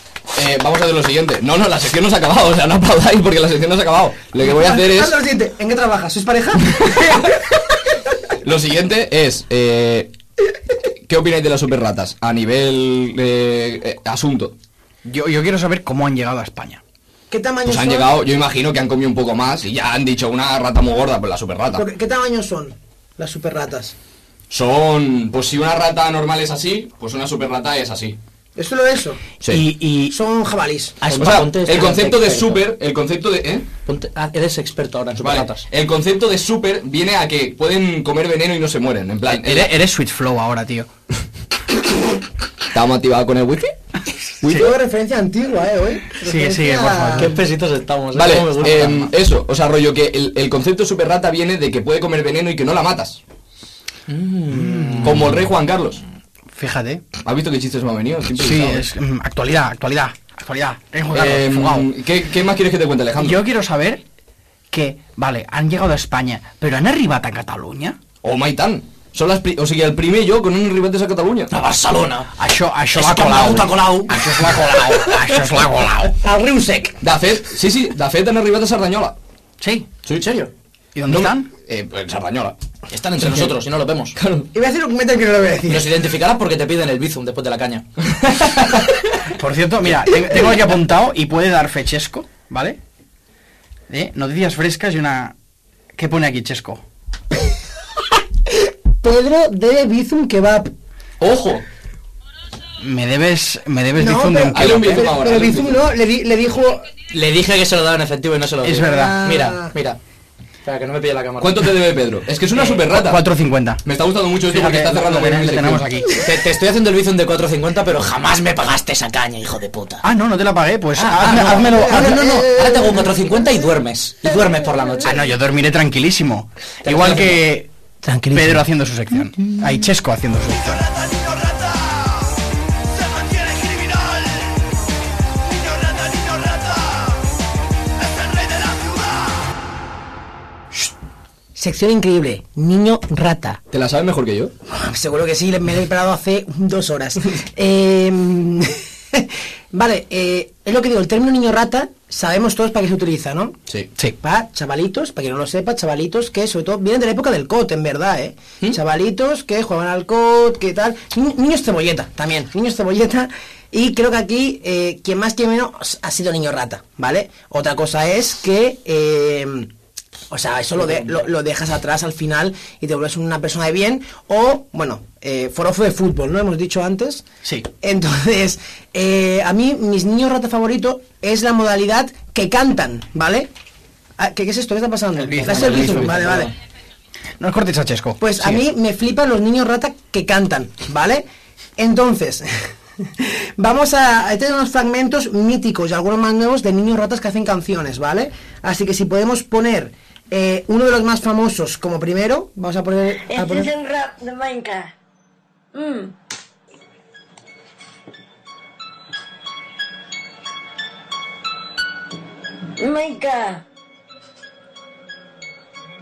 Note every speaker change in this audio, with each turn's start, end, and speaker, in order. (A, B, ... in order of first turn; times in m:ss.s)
0:00.3-0:05.2 A
0:04.4-0:07.6 B
0:08.4-0:10.1 A
0:11.1-0:14.5 A
0:15.0-0:16.8 C
0:17.3-0:18.1 B
0:17.6-0:21.8 A
0:21.7-0:23.9 B
0:24.5-0:28.2 A
0:28.6-0:29.2 B
0:29.6-0:29.9 C
0:30.1-0:31.0 B
0:31.0-0:32.6 D
0:31.2-0:33.7 A
0:33.9-0:35.6 D
0:35.2-0:39.7 A
0:39.3-0:40.9 C
0:42.7-0:43.8 A
0:44.4-0:44.8 A
0:44.4-0:44.7 C
0:44.6-0:47.3 B
0:46.2-0:47.4 C
0:47.2-0:49.1 D
0:48.1-0:53.2 A
0:54.1-0:55.2 D
0:54.5-0:55.4 C
0:55.0-0:56.0 A
0:56.5-0:57.0 C
0:57.2-0:58.8 A
0:58.3-1:01.9 C
1:01.1-1:03.4 A
1:03.2-1:04.0 C
1:04.7-1:08.0 C
1:08.2-1:11.5 A
1:11.5-1:12.3 D
1:12.4-1:16.2 C
1:13.0-1:15.1 D
1:16.2-1:16.9 B
1:17.0-1:19.1 A
1:19.6-1:19.9 C
1:20.1-1:20.5 D
1:20.9-1:21.5 C
1:21.1-1:22.5 A
1:22.9-1:24.1 D
1:24.2-1:24.5 A
1:24.5-1:25.9 B
1:25.7-1:27.8 D
1:29.3-1:32.8 C
1:33.9-1:35.3 C
1:36.0-1:36.8 C
1:39.0-1:40.7 B
1:41.2-1:41.6 A
1:42.8-1:45.1 C
1:44.0-1:46.9 B
1:44.5-1:45.8 A
1:47.1-1:50.0 D
1:48.6-1:49.2 C
1:48.8-1:49.7 B
1:50.6-1:51.7 D
1:51.4-1:53.2 A
1:52.5-1:52.8 D
1:52.9-1:53.8 C
1:53.8-1:55.8 A
1:54.4-1:56.2 C
1:56.2-2:00.0 D
2:00.0-2:02.5 C
2:00.9-2:05.2 D
2:01.9-2:03.1 B
2:05.0-2:07.7 C
2:06.8-2:07.4 D
2:08.0-2:08.6 D
2:08.3-2:10.8 C
2:21.6-2:23.6 B
2:23.7-2:24.5 A
2:24.6-2:33.6 B
2:34.2-2:49.7 B
2:50.3-2:57.2 B
2:57.8-3:03.5 B
3:04.2-3:06.5 B
3:05.2-3:06.5 C
3:05.4-3:06.5 D
3:07.4-3:08.6 C
3:08.2-3:11.2 B
3:11.8-3:12.5 B
3:13.0-3:23.7 B
3:23.3-3:24.9 E
3:25.7-3:26.1 E
3:32.8-3:33.6 E